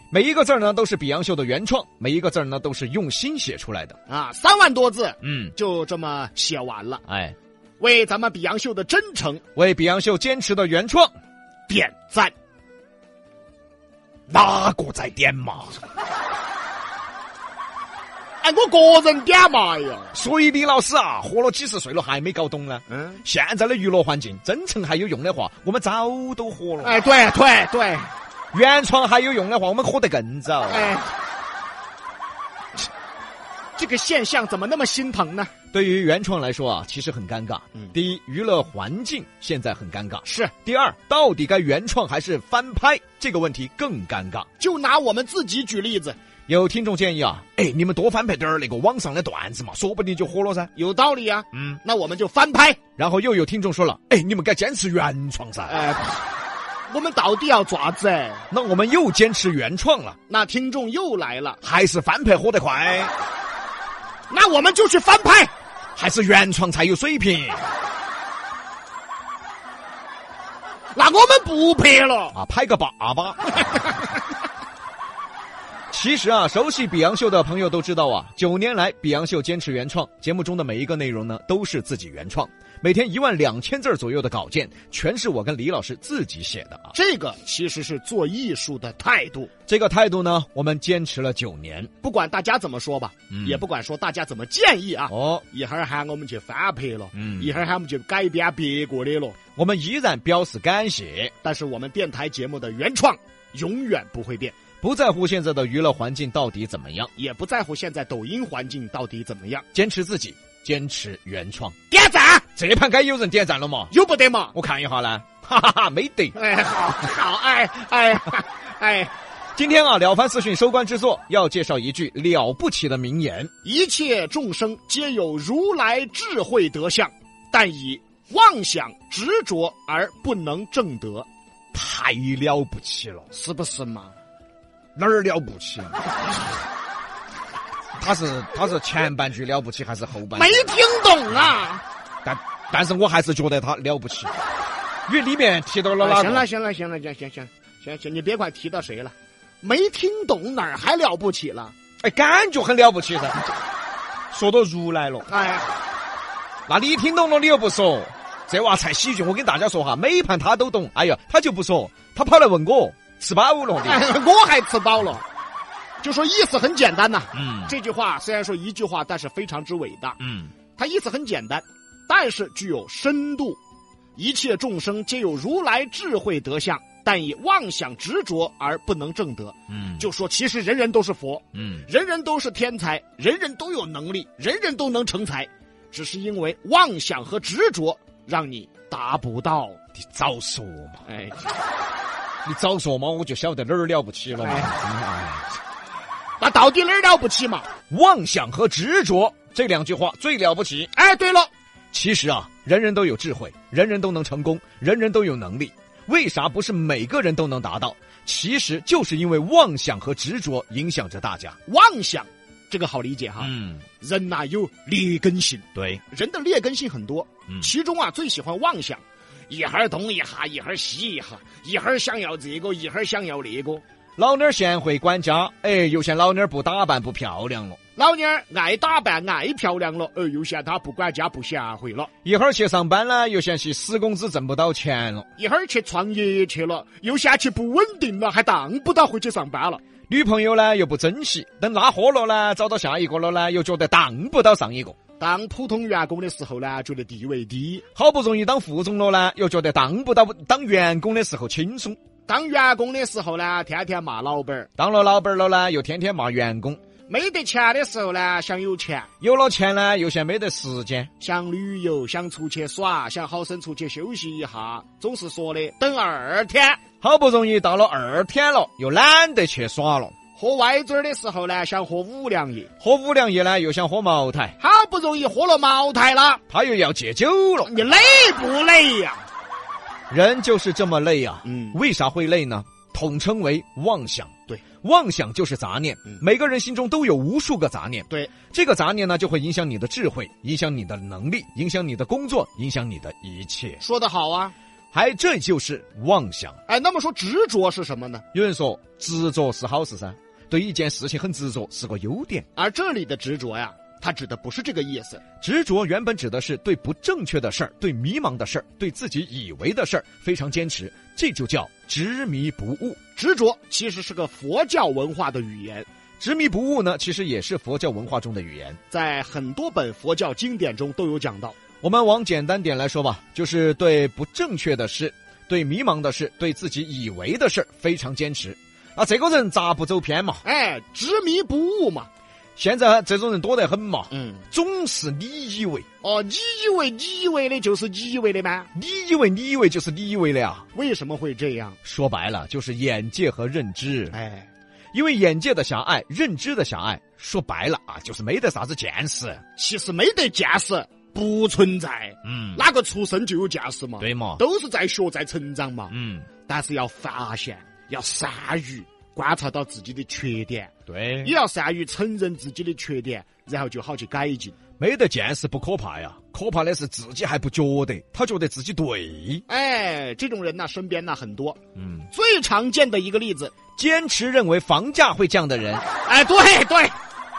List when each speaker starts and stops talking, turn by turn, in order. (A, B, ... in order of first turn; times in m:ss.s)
0:00.1-0:04.0 A
0:04.1-0:07.0 B
0:05.2-0:05.5 A
0:07.1-0:07.4 A
0:07.8-0:09.4 B
0:09.6-0:11.1 A
0:11.7-0:12.3 B
0:14.3-0:15.8 A
0:18.4-0:20.1 B
0:20.1-0:27.0 A
0:22.9-0:23.2 B
0:26.8-0:28.1 B
0:28.5-0:30.9 A
0:30.7-0:31.1 B
0:33.8-0:35.5 B
0:35.7-0:44.5 A
0:40.2-0:40.5 B
0:44.6-0:46.2 B
0:46.5-0:50.7 A
0:50.8-0:52.8 B
0:51.5-0:51.8 A
0:53.0-0:55.8 A
0:55.7-0:56.2 B
0:56.9-0:58.5 B
0:58.5-1:00.2 A
1:00.3-1:01.6 B
1:01.6-1:03.1 A
1:04.3-1:05.5 B
1:06.0-1:07.6 A
1:10.9-1:12.4 B
1:12.3-1:13.9 A
1:15.9-1:27.0 A
1:26.9-1:29.5 B
1:29.7-1:31.9 A
1:32.0-1:39.4 B
1:33.3-1:33.6 A
1:35.1-1:35.4 A
1:37.1-1:37.6 A
1:39.6-1:41.3 A
1:41.4-1:44.6 B
1:44.8-1:47.1 A
1:47.2-1:49.6 B
1:49.7-1:51.8 A
1:51.9-1:52.5 B
1:52.6-1:53.9 A
1:53.9-1:54.6 B
1:54.5-1:56.4 A
1:56.4-1:59.1 B
1:59.6-2:03.5 A
2:03.6-2:11.3 B
2:11.7-2:13.3 A
2:13.3-2:14.2 B
2:15.0-2:16.0 A
2:18.0-2:20.6 A
2:20.3-2:21.8 B
2:22.2-2:24.3 A
2:25.1-2:26.4 A
2:26.0-2:31.8 B
2:32.0-2:33.5 A
2:34.3-2:35.3 A
2:35.3-2:35.7 B
2:36.7-2:44.1 A
2:43.8-2:45.2 B
2:46.0-2:50.2 B
2:47.4-2:47.7 A
2:50.2-2:50.5 A
2:50.8-2:53.6 B
2:54.2-3:09.8 B
2:59.7-3:00.0 A
3:01.6-3:01.9 A
3:10.1-3:11.0 A
3:11.1-3:11.5 B
3:12.4-3:15.5 A
3:14.4-3:14.7 B
3:16.4-3:17.7 B
3:17.9-3:20.9 A
3:21.0-3:21.5 B
3:21.9-3:31.6 A
3:31.7-3:43.8 B
3:33.4-3:33.8 A
3:35.8-3:36.0 A
3:44.2-3:47.8 A
3:48.0-3:52.1 B
3:52.2-3:55.3 A
3:55.4-3:59.8 B
4:00.1-4:05.0 A
4:05.2-4:07.8 B
4:08.0-4:12.0 A
4:12.3-4:14.7 B
4:14.8-4:16.8 A
4:17.1-4:19.1 B
4:19.2-4:21.1 A
4:21.2-4:26.8 B
4:27.0-4:30.2 A
4:30.4-4:32.7 B
4:32.8-4:34.6 A
4:34.6-4:36.4 B
4:36.5-4:37.7 A
4:37.6-4:39.3 B
4:40.1-4:53.8 A
4:41.4-4:41.8 B
4:53.8-4:54.6 B
4:54.9-4:56.6 A
4:56.7-4:58.2 B
4:58.3-5:02.5 A
5:02.6-5:05.2 B
5:05.4-5:13.0 A
5:13.2-5:15.9 B
5:16.2-5:18.8 A
5:18.9-5:21.6 B
5:21.8-5:30.4 A
5:30.4-5:32.1 B
5:32.6-5:35.8 A
5:34.1-5:34.4 B
5:36.0-5:38.7 B
5:38.8-5:40.7 A
5:40.8-5:41.8 B
5:41.8-5:44.2 A
5:44.1-5:44.5 B
5:44.9-5:49.4 A
5:49.6-5:55.9 B
5:52.2-5:52.6 A
5:54.0-5:54.4 A
5:55.9-5:56.3 A
5:56.5-6:04.6 B
6:00.9-6:01.3 A
6:04.8-6:09.4 A
6:09.5-6:11.6 B
6:11.8-6:12.1 A
6:12.1-6:13.5 B
6:13.8-6:15.9 A
6:16.0-6:17.0 B